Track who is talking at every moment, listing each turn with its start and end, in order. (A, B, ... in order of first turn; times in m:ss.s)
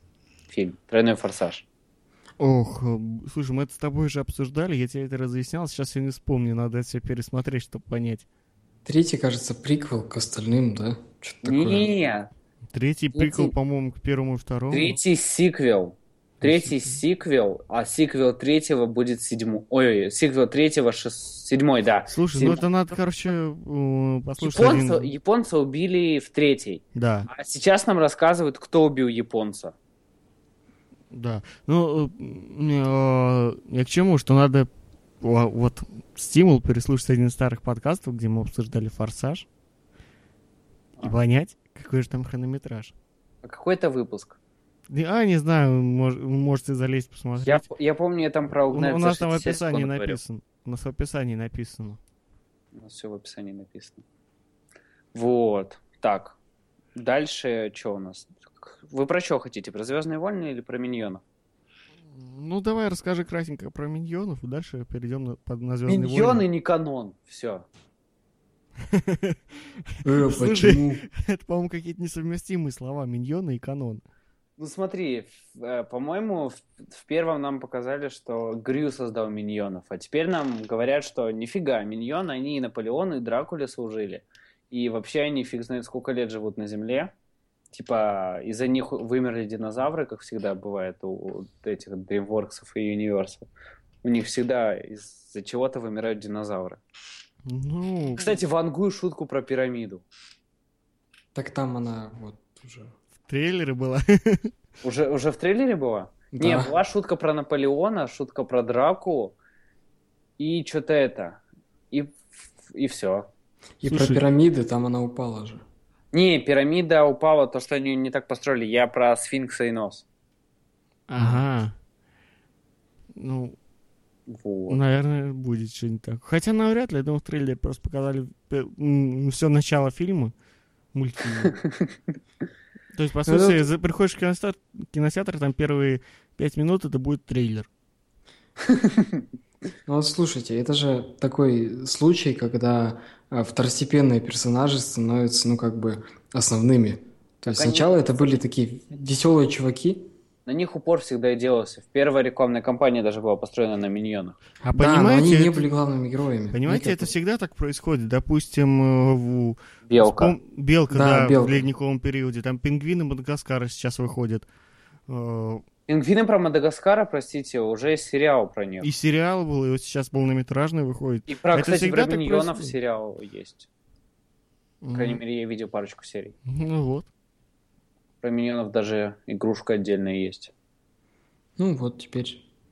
0:00.5-0:01.6 A
0:02.4-0:08.3 B
0:08.8-0:11.9 C
0:11.4-0:12.3 A
0:12.7-0:15.0 B
0:13.2-0:13.5 A
0:14.7-0:22.6 A
0:16.4-0:17.0 B
0:22.1-0:25.1 B
0:24.4-0:29.7 A
0:27.0-0:27.3 B
0:31.1-0:34.7 B
0:35.2-0:39.5 B
0:41.0-0:42.9 B
0:43.4-0:44.4 A
0:44.9-0:47.6 B
0:47.4-0:50.2 A
0:48.7-0:52.0 B
0:52.8-0:54.0 A
0:55.1-0:56.4 A
0:57.0-1:01.2 A
1:02.1-1:06.4 B
1:05.9-1:07.6 A
1:08.9-1:14.0 B
1:10.0-1:11.0 C
1:14.6-1:27.1 A
1:27.7-1:33.5 A
1:34.0-1:36.8 A
1:37.5-1:38.4 B
1:38.2-1:40.0 A
1:41.4-1:42.9 C
1:43.3-1:44.5 B
1:44.8-1:49.4 A
1:46.3-1:46.7 C
1:50.4-1:51.4 A
1:51.9-1:53.3 A
1:53.8-1:55.6 C
1:53.9-1:54.2 B
1:56.1-2:00.0 A
2:01.1-2:01.8 B
2:03.2-2:03.6 B
2:04.3-2:04.8 A
2:04.7-2:10.3 B
2:10.9-2:11.6 B
2:11.4-2:11.9 A
2:12.9-2:17.7 B
2:13.3-2:13.7 C
2:18.7-2:19.2 A
2:19.9-2:30.1 C
2:27.5-2:28.1 A
2:30.5-2:34.4 A
2:34.6-2:35.6 B
2:34.7-2:37.1 C
2:36.5-2:44.5 B
2:39.9-2:40.4 A
2:40.9-2:41.6 C
2:45.1-2:45.6 B
2:45.9-2:48.9 A
2:48.8-2:52.7 B
2:51.3-2:53.7 A
2:54.8-2:55.2 B
2:54.9-2:56.4 A
2:56.5-2:57.1 B
2:58.2-3:00.5 A
3:01.6-3:02.4 C